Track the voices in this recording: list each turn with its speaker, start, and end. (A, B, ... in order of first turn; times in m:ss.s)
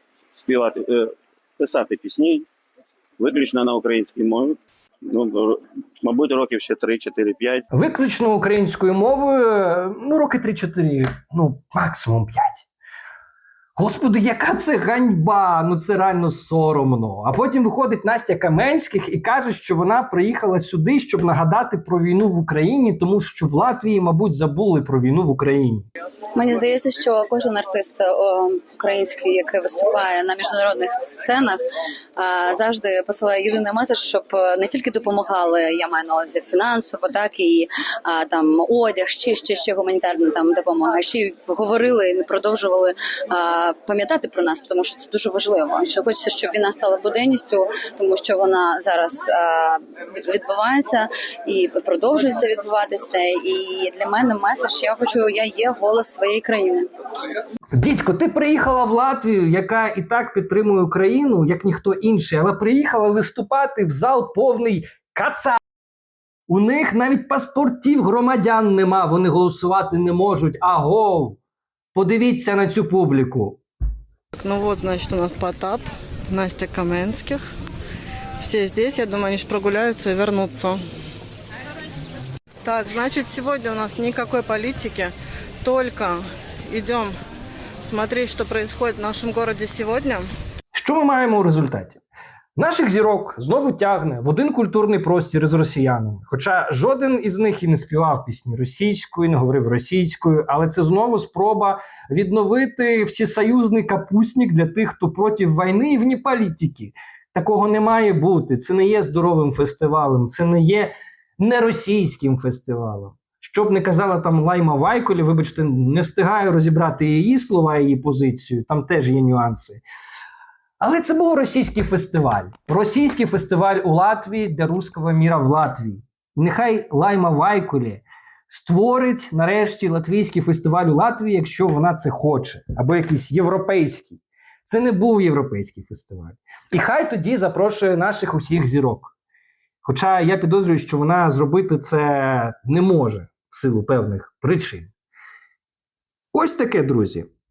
0:00.4-0:02.5 A
0:03.2-0:07.6 A
0:07.7-0:12.7 B
0:13.8-0:25.9 B
0:26.4-0:31.6 C
0:32.2-0:56.9 C
0:57.7-1:05.6 B
1:06.5-1:11.4 B
1:12.0-1:13.6 B
1:14.4-1:17.5 D
1:18.4-1:20.8 D
1:22.6-1:27.2 D
1:27.8-1:30.3 D
1:30.7-1:32.0 B
1:32.6-1:59.8 B
2:00.8-2:19.1 B
2:19.8-2:24.9 B
2:26.3-2:27.3 B